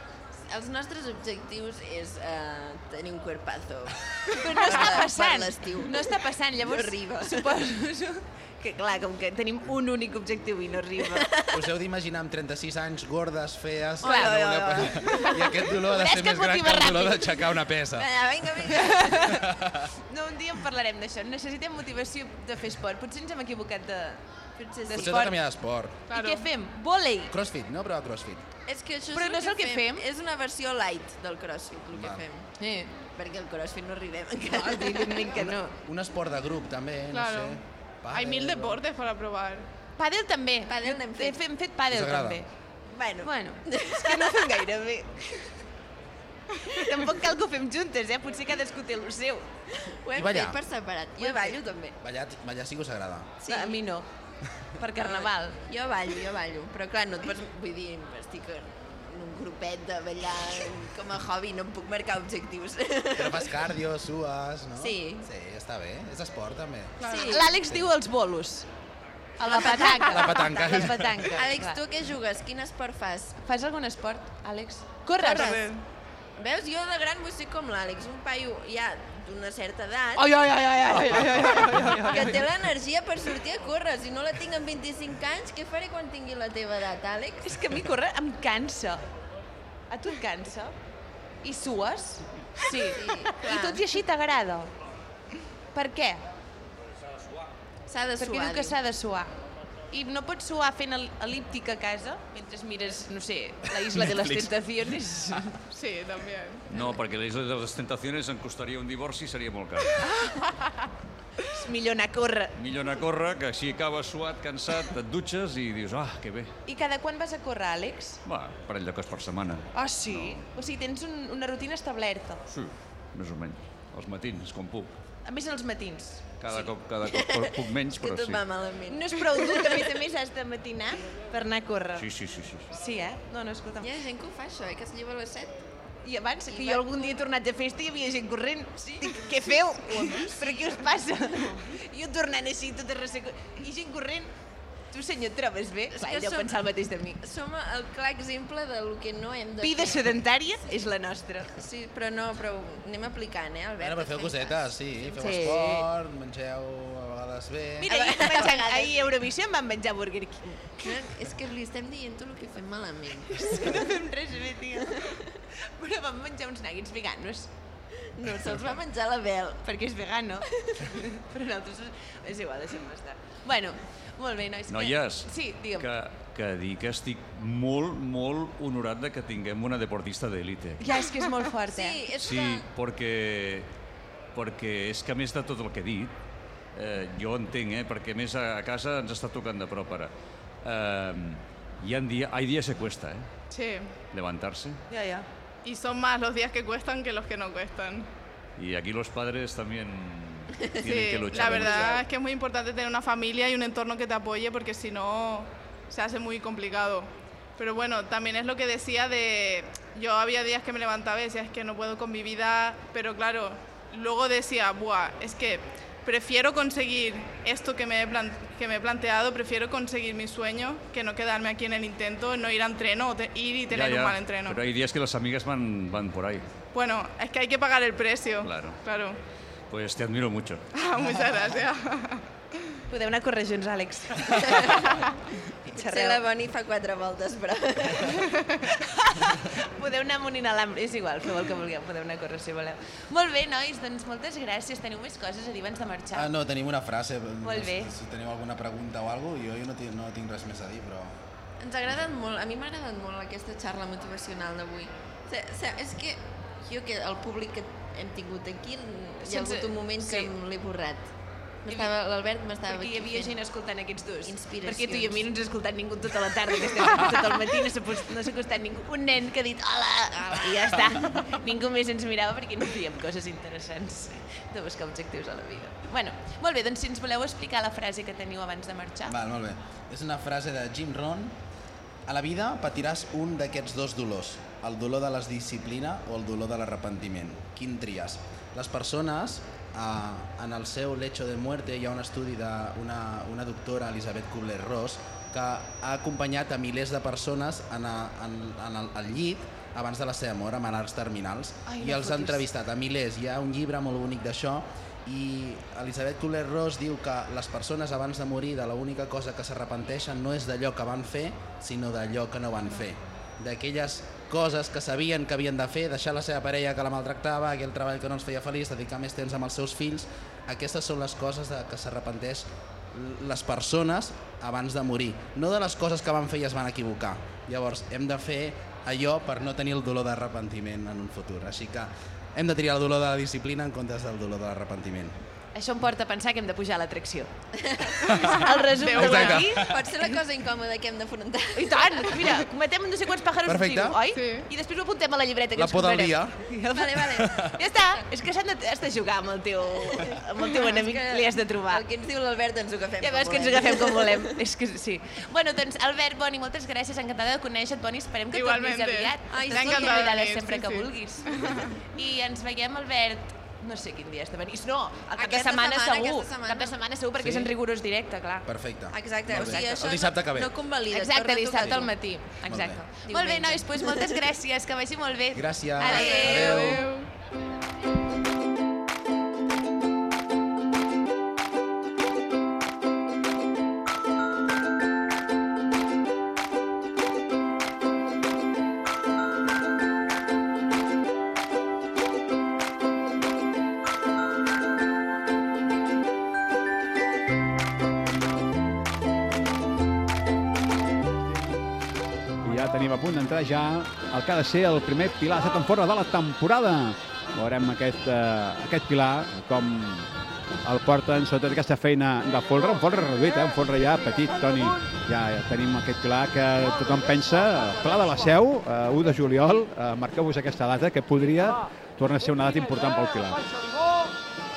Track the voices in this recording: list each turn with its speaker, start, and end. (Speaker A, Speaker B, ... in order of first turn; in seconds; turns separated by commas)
Speaker A: 0.5-7.5, Speaker B: 4.3-11.3, Speaker A: 11.0-11.7, Speaker C: 11.5-18.1, Speaker A: 14.0-15.6, Speaker B: 14.0-17.4, Speaker A: 17.9-19.2, Speaker B: 18.6-19.5, Speaker C: 19.3-19.9, Speaker B: 20.1-24.2, Speaker A: 24.6-25.1, Speaker B: 24.7-25.4, Speaker C: 24.9-26.0, Speaker D: 26.1-26.4, Speaker B: 26.1-27.3, Speaker C: 27.3-28.4, Speaker A: 28.7-32.5, Speaker B: 29.1-30.0, Speaker C: 31.9-32.2, Speaker B: 32.6-32.9, Speaker A: 33.1-35.2, Speaker B: 34.5-35.7, Speaker C: 35.0-38.8, Speaker D: 37.1-37.6, Speaker D: 38.1-39.6, Speaker B: 40.0-42.5, Speaker A: 40.6-41.4, Speaker C: 41.9-42.4, Speaker A: 42.9-44.6, Speaker B: 43.2-45.5, Speaker B: 46.6-49.5, Speaker A: 49.8-52.0, Speaker C: 50.1-50.6, Speaker B: 51.2-51.6, Speaker C: 52.0-53.4, Speaker A: 53.4-53.8, Speaker B: 53.5-54.0, Speaker B: 54.8-55.6, Speaker A: 55.0-63.6, Speaker C: 63.1-67.0, Speaker A: 64.8-65.3, Speaker D: 67.0-67.4, Speaker A: 67.0-67.5, Speaker B: 67.2-68.7, Speaker B: 69.4-71.8, Speaker A: 69.4-73.4, Speaker C: 70.0-71.3, Speaker B: 73.4-75.7, Speaker A: 75.2-75.7, Speaker D: 75.3-75.7, Speaker A: 76.4-80.3, Speaker B: 80.2-82.4, Speaker A: 81.0-87.5, Speaker B: 87.4-89.0, Speaker B: 89.9-90.7, Speaker B: 91.4-94.7, Speaker A: 92.8-93.8, Speaker B: 95.7-96.2, Speaker A: 97.9-98.8, Speaker B: 98.2-99.3, Speaker B: 99.9-105.6, Speaker D: 105.7-106.6, Speaker E: 106.7-110.0, Speaker B: 110.0-110.3, Speaker B: 111.5-112.5, Speaker E: 112.5-116.5, Speaker B: 116.7-118.2, Speaker E: 118.2-120.4, Speaker B: 119.7-122.4, Speaker E: 122.5-125.0, Speaker B: 125.2-126.7, Speaker E: 126.4-128.4, Speaker A: 127.0-130.0, Speaker B: 128.9-132.1, Speaker E: 132.0-132.7, Speaker B: 132.7-133.9, Speaker A: 133.8-135.6, Speaker B: 136.0-144.3, Speaker A: 136.5-137.1, Speaker A: 139.0-140.7, Speaker B: 144.9-147.2, Speaker A: 145.9-146.6, Speaker A: 147.2-150.2, Speaker B: 149.6-151.5, Speaker A: 151.6-155.4, Speaker C: 153.8-157.9, Speaker B: 155.2-155.8, Speaker B: 157.8-161.0, Speaker A: 157.8-159.1, Speaker A: 160.8-163.9, Speaker B: 163.3-165.2, Speaker A: 164.8-165.3, Speaker B: 165.8-167.5, Speaker A: 168.0-169.6, Speaker B: 169.6-175.9, Speaker A: 170.5-170.9, Speaker E: 174.7-180.8, Speaker B: 180.8-182.0, Speaker A: 181.7-182.7, Speaker E: 182.2-183.7, Speaker E: 184.3-186.1, Speaker E: 186.7-190.1, Speaker E: 190.6-193.3, Speaker D: 193.5-193.9, Speaker E: 194.1-194.8, Speaker B: 194.9-195.2, Speaker D: 195.6-198.1, Speaker E: 198.6-202.0, Speaker D: 200.9-224.6, Speaker A: 201.3-202.0, Speaker E: 223.7-226.4, Speaker D: 226.7-229.2, Speaker E: 228.4-228.8, Speaker E: 229.7-230.7, Speaker D: 230.7-232.2, Speaker B: 232.9-235.0, Speaker A: 234.3-235.0, Speaker B: 235.7-236.2, Speaker A: 235.7-238.3, Speaker B: 238.7-246.3, Speaker C: 246.1-251.1, Speaker B: 247.4-247.9, Speaker A: 251.6-261.1, Speaker B: 259.2-260.3, Speaker A: 261.6-263.4, Speaker B: 262.7-279.2, Speaker A: 264.2-265.2, Speaker A: 270.3-270.9, Speaker C: 279.1-281.3, Speaker C: 282.1-335.1, Speaker B: 301.6-302.5, Speaker B: 335.5-337.3, Speaker A: 337.6-338.1, Speaker B: 338.1-340.0, Speaker D: 338.1-339.4, Speaker C: 338.9-339.6, Speaker A: 339.1-342.4, Speaker B: 341.5-351.8, Speaker C: 343.4-344.0, Speaker D: 344.1-344.5, Speaker C: 345.5-346.4, Speaker A: 346.7-348.0, Speaker C: 347.2-347.5, Speaker A: 349.9-354.4, Speaker B: 353.0-368.5, Speaker D: 358.3-361.7, Speaker A: 359.3-360.2, Speaker A: 365.1-366.8, Speaker C: 367.2-367.5, Speaker C: 368.4-370.5, Speaker A: 368.9-371.9, Speaker B: 369.3-370.1, Speaker B: 370.9-376.8, Speaker C: 371.6-371.9, Speaker C: 372.4-372.8, Speaker A: 372.6-374.2, Speaker C: 375.3-376.8, Speaker A: 375.8-376.8, Speaker D: 376.0-377.0, Speaker F: 402.4-410.1, Speaker F: 410.6-423.4